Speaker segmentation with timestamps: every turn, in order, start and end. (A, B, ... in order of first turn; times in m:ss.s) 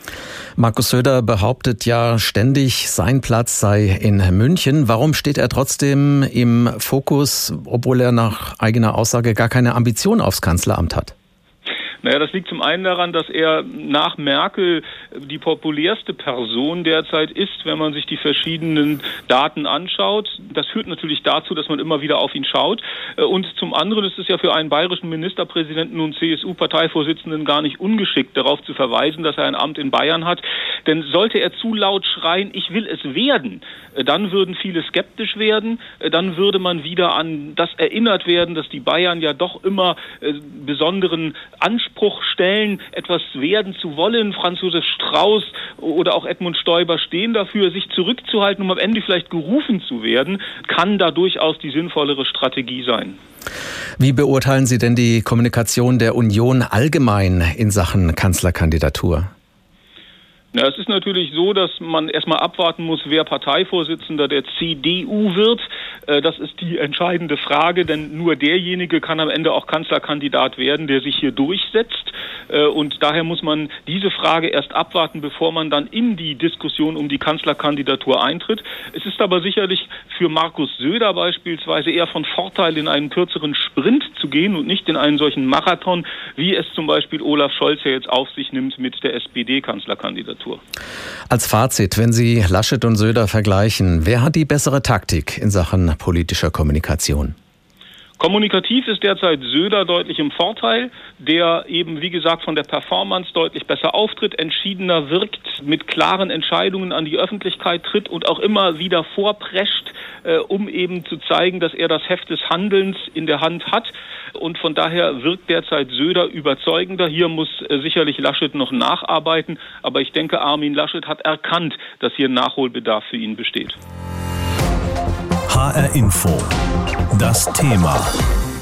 0:00.6-0:11.1 A
0:12.0-0:53.2 B
0:54.0-0:59.3 A
1:00.5-1:30.6 B
1:31.3-1:37.4 A
1:38.2-2:03.8 B
2:05.5-2:06.6 C
2:07.1-2:08.2 C